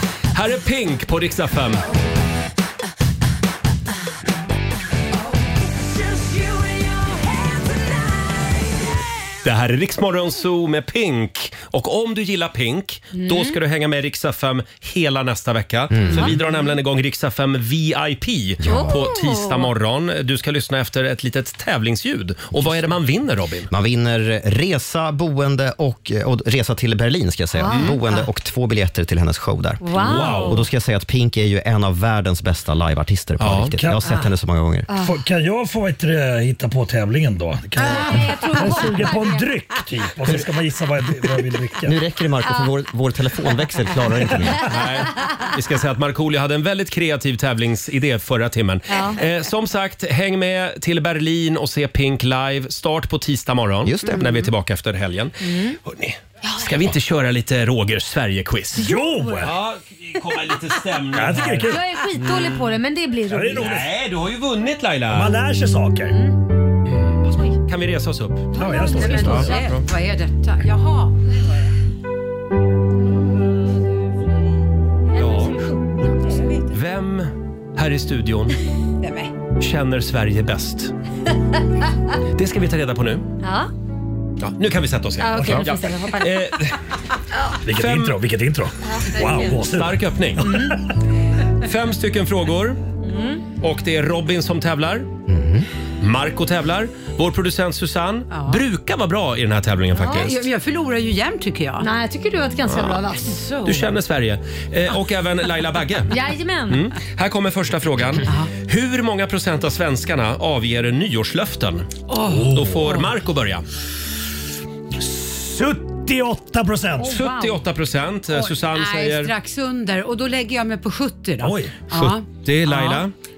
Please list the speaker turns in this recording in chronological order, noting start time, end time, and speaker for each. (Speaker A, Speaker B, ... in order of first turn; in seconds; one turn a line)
Speaker A: 0.3-1.8
Speaker A: 9.4-23.7
Speaker B: 13.1-13.6
Speaker C: 15.9-16.4
Speaker C: 18.6-19.0
Speaker B: 18.7-19.7
Speaker C: 23.7-34.9
Speaker B: 27.6-28.2
Speaker A: 27.7-28.0
Speaker B: 29.8-30.6
Speaker A: 30.0-30.6
Speaker D: 30.0-30.6
Speaker A: 33.4-33.8
Speaker D: 33.8-34.1
Speaker B: 34.9-35.2
Speaker D: 35.0-42.0
Speaker B: 37.8-39.5
Speaker C: 41.9-44.7
Speaker B: 42.5-42.7
Speaker A: 44.6-58.9
Speaker B: 48.9-49.2
Speaker C: 53.8-54.3
Speaker B: 55.4-55.8
Speaker B: 56.4-56.9
Speaker D: 58.7-59.5
Speaker B: 58.8-59.5
Speaker A: 59.4-62.6
Speaker D: 61.1-61.8
Speaker B: 61.7-63.6
Speaker D: 63.3-63.9
Speaker A: 63.6-65.4
Speaker D: 65.1-66.2
Speaker B: 66.1-66.4
Speaker A: 66.9-68.5
Speaker B: 67.3-67.6
Speaker B: 68.5-69.8
Speaker D: 68.5-69.5
Speaker E: 68.7-71.2
Speaker A: 69.2-69.8
Speaker B: 75.1-76.4
Speaker A: 75.2-75.6
Speaker E: 76.3-76.6
Speaker A: 76.7-78.6
Speaker E: 79.0-79.3
Speaker A: 79.6-80.9
Speaker A: 82.3-83.3
Speaker B: 83.4-83.7
Speaker A: 84.4-86.8
Speaker B: 85.2-86.5
Speaker D: 85.4-85.7
Speaker D: 87.7-90.8
Speaker A: 87.8-88.2
Speaker B: 88.9-89.5
Speaker A: 89.5-90.5
Speaker B: 90.4-90.8
Speaker A: 91.6-92.8
Speaker B: 93.0-93.4
Speaker A: 93.6-95.1
Speaker C: 95.3-95.7
Speaker A: 96.0-100.5
Speaker E: 98.3-98.6
Speaker B: 100.0-100.3
Speaker E: 100.1-101.9
Speaker B: 101.8-103.4
Speaker A: 102.7-103.0
Speaker E: 103.3-103.9
Speaker A: 103.6-106.1
Speaker B: 106.1-106.8
Speaker A: 106.7-113.7
Speaker E: 108.2-108.5
Speaker E: 112.1-113.0
Speaker D: 112.3-113.0
Speaker D: 115.0-117.2
Speaker B: 117.0-117.6
Speaker A: 117.1-119.3
Speaker E: 118.3-123.0
Speaker D: 121.4-121.8
Speaker A: 121.9-123.1